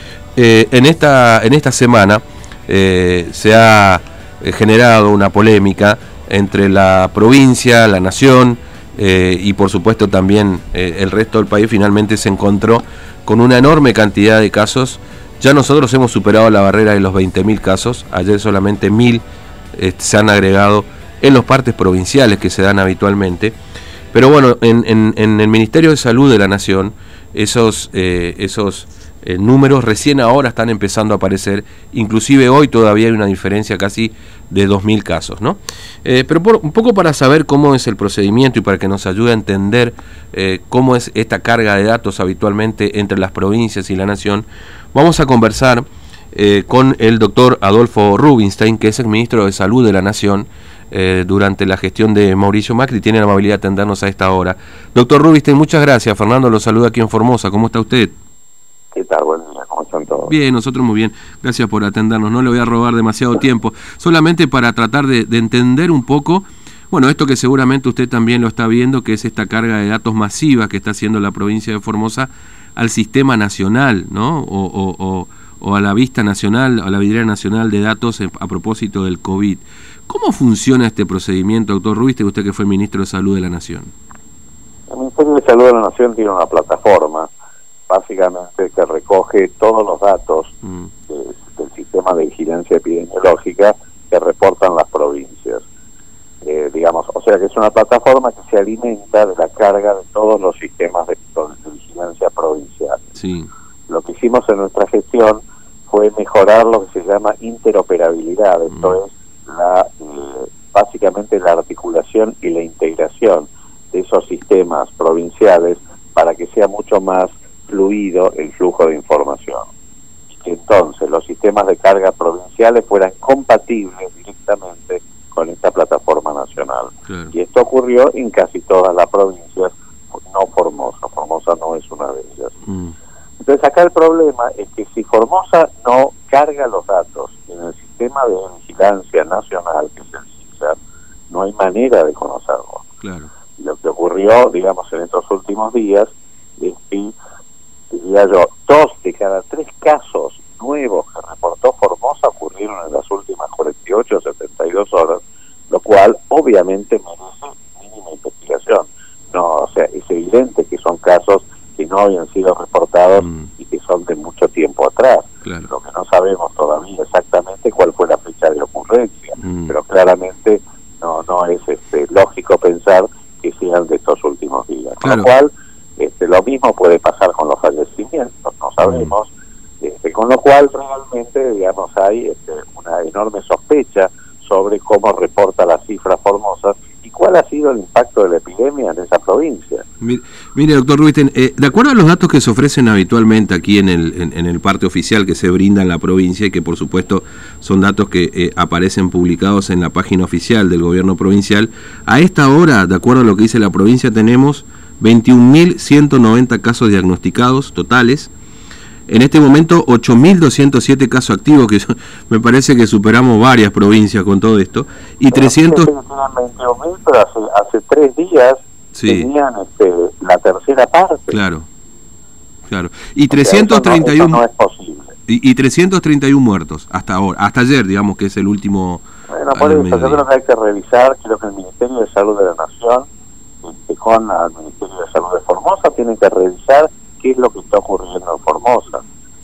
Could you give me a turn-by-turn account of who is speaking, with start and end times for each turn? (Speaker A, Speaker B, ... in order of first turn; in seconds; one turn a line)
Speaker A: 0.4-19.2
Speaker A: 19.7-23.6
Speaker A: 24.1-58.1
Speaker B: 58.9-60.3
Speaker A: 60.3-83.9
Speaker B: 84.9-87.3
Speaker B: 87.9-90.6
Speaker B: 91.1-95.7
Speaker B: 96.4-103.0
Speaker A: 103.2-103.5
Speaker B: 103.9-119.7
Speaker A: 108.7-109.0
Speaker B: 120.3-132.6
Speaker A: 127.1-127.3
Speaker A: 132.7-132.9
Speaker B: 133.4-140.8
Speaker B: 141.3-142.9
Speaker A: 143.0-143.3
Speaker B: 143.6-147.1
Speaker B: 147.9-189.8
Speaker A: 163.2-163.5
Speaker A: 165.4-165.7
Speaker A: 169.4-169.8
Speaker A: 175.0-175.3
Speaker A: 178.8-179.1
Speaker A: 190.0-208.3
Speaker A: 209.1-215.9
Speaker B: 215.3-221.4
Speaker A: 218.9-219.3
Speaker A: 221.3-221.7
Speaker A: 222.7-224.4
Speaker B: 223.3-225.1
Speaker A: 225.3-230.2
Speaker B: 229.3-233.1
Speaker B: 233.6-239.1